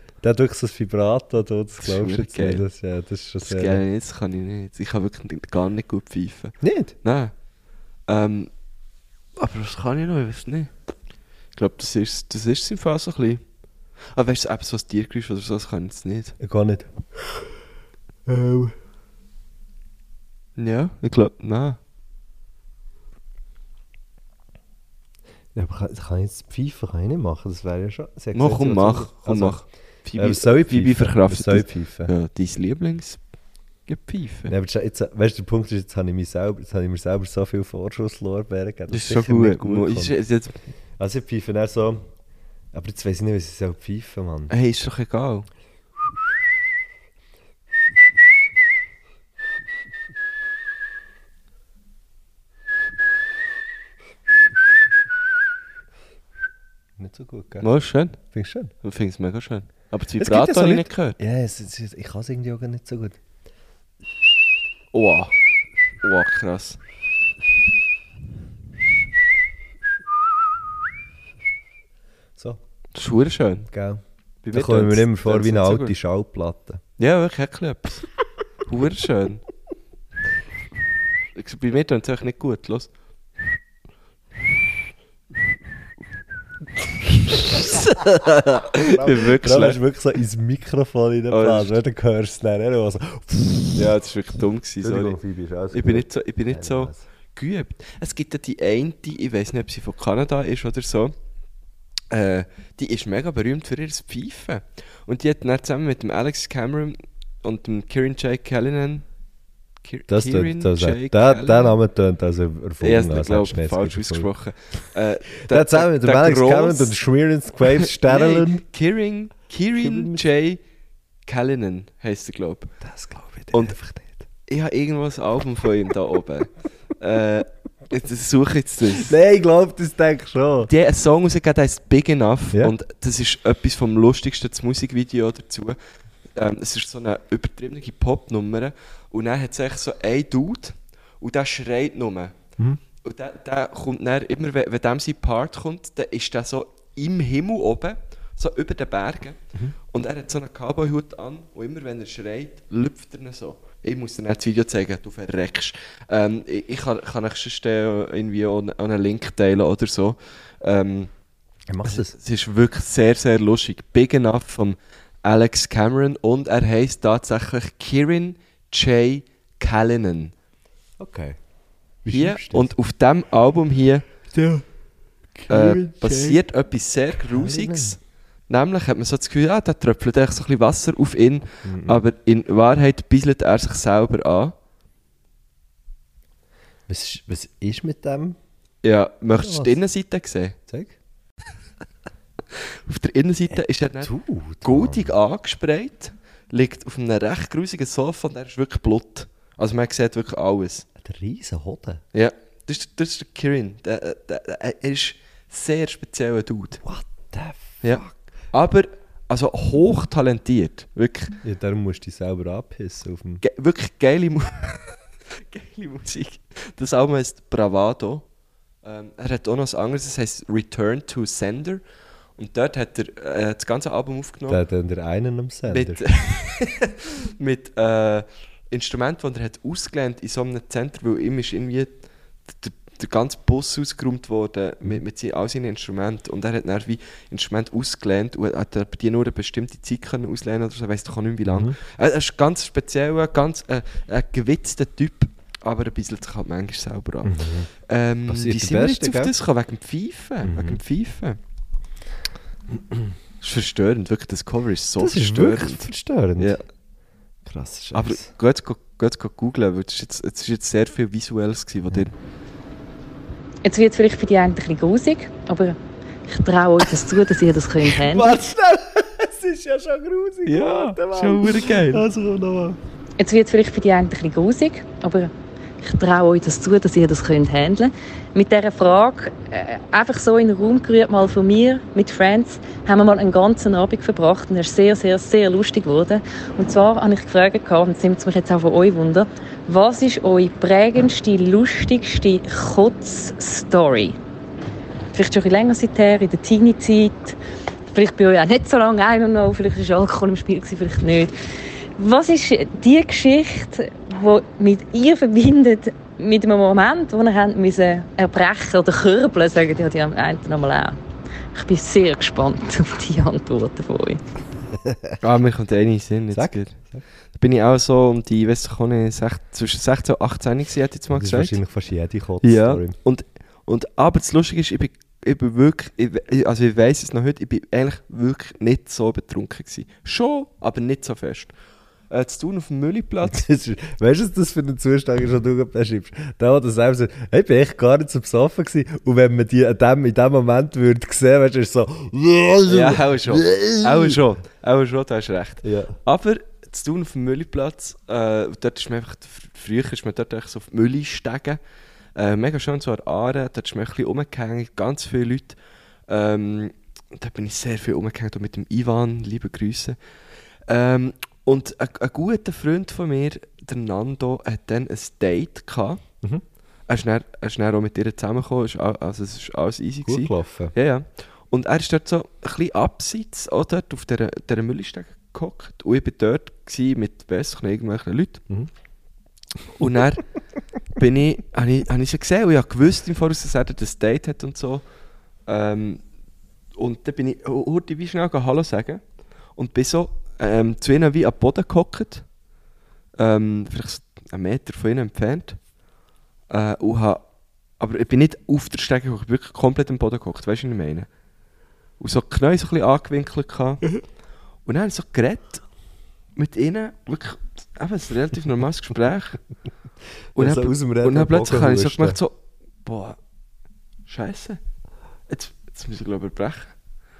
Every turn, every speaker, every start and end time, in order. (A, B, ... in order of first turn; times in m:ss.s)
0:00.2-0:03.8 A
0:01.8-0:02.6 B
0:03.4-0:07.3 B
0:06.6-0:06.9 A
0:08.1-0:08.5 B
0:09.4-0:10.7 B
0:11.5-0:13.4 B
0:14.1-0:16.4 B
0:16.4-0:16.9 A
0:18.2-0:18.7 A
0:20.6-0:21.8 B
0:25.5-0:29.6 A
0:28.3-0:33.2 B
0:30.2-0:32.1 A
0:33.9-0:34.5 B
0:34.5-0:40.1 A
0:38.9-0:40.6 B
0:41.0-0:42.1 A
0:42.7-0:44.5 A
0:44.5-0:45.5 B
0:57.0-0:57.7 A
0:57.6-0:58.2 B
0:58.2-0:58.7 A
0:58.8-1:01.2 B
1:00.2-1:03.2 A
1:04.9-1:05.3 B
1:06.0-1:06.8 B
1:12.4-1:12.6 A
1:12.9-1:13.7 B
1:13.7-1:16.8 A
1:14.4-1:16.0 B
1:17.0-1:18.0 B
1:18.6-1:19.4 B
1:21.3-1:22.9 B
1:27.3-1:33.8 A
1:27.5-1:27.9 B
1:28.7-1:29.8 B
1:31.3-1:31.8 B
1:33.7-1:35.2 B
1:34.8-1:37.0 A
1:35.7-1:41.1 B
1:42.1-1:49.0 B
1:49.8-1:51.7 B
1:50.1-1:54.3 A
1:52.8-1:56.9 B
1:55.5-1:58.6 A
1:57.9-2:00.6 B
1:59.8-2:00.2 A
2:01.2-2:02.7 B
2:02.8-2:04.2 A
2:04.5-2:09.1 B
2:09.0-2:10.7 A
2:10.7-2:15.8 B
2:16.3-2:22.3 B
2:23.0-2:29.4 B
2:29.9-2:41.1 B
2:41.7-2:42.1 A
2:41.8-2:50.3 B
2:51.0-2:51.4 A
2:52.0-2:52.7 A
2:52.1-2:54.1 B
2:54.3-2:54.6 A
2:55.3-2:56.4 A
2:55.5-3:04.5 B
2:57.3-2:58.0 A
3:01.6-3:02.0 A
3:06.9-3:08.4 A
3:08.8-3:10.6 B
3:09.3-3:09.8 A
3:10.7-3:10.9 A
3:12.6-3:14.1 B
3:14.0-3:15.1 A
3:14.6-3:20.8 B
3:21.0-3:22.0 A
3:22.1-3:26.8 B
3:26.8-3:28.1 A
3:27.8-3:31.4 B
3:31.4-3:33.4 A
3:33.4-3:38.2 B
3:38.8-3:41.8 B
3:42.4-3:44.6 B
3:44.5-3:46.0 A
3:45.7-4:11.4 B
4:01.4-4:01.8 A
4:07.2-4:07.7 A
4:08.3-4:09.3 A
4:10.4-4:10.8 A
4:12.7-4:13.1 A
4:13.4-4:16.6 B
4:15.0-4:16.6 A
4:17.4-4:18.3 A
4:17.9-4:22.1 B
4:23.6-4:28.4 C
4:27.8-4:32.8 A
4:30.4-4:32.0 B
4:33.2-4:54.2 C
4:55.1-4:57.4 C
4:57.9-5:01.3 C
5:02.0-5:11.0 C
5:11.5-5:14.2 C
5:14.7-5:15.2 A
5:15.2-5:16.8 B
5:16.3-5:17.0 A
5:17.3-5:21.6 B
5:21.1-5:22.9 A
5:22.4-5:31.5 B
5:32.1-5:33.4 B
5:33.2-5:44.2 A
5:42.6-5:51.6 B
5:45.6-5:46.0 A
5:52.2-5:55.6 B
5:56.1-6:00.0 B
6:00.7-6:06.0 B
6:06.9-6:18.4 B
6:10.0-6:10.7 A
6:19.8-6:20.2 B
6:21.0-6:24.8 B
6:25.4-6:26.0 B
6:26.7-6:29.0 B
6:29.5-6:32.3 B
6:33.2-6:35.6 B
6:36.5-6:37.2 B
6:37.8-6:41.1 B
6:42.0-6:43.8 B
6:44.6-6:45.6 B
6:46.4-6:49.4 B
6:50.3-6:53.2 B
6:50.4-6:52.2 A
6:54.1-6:54.6 B
6:55.3-6:56.7 B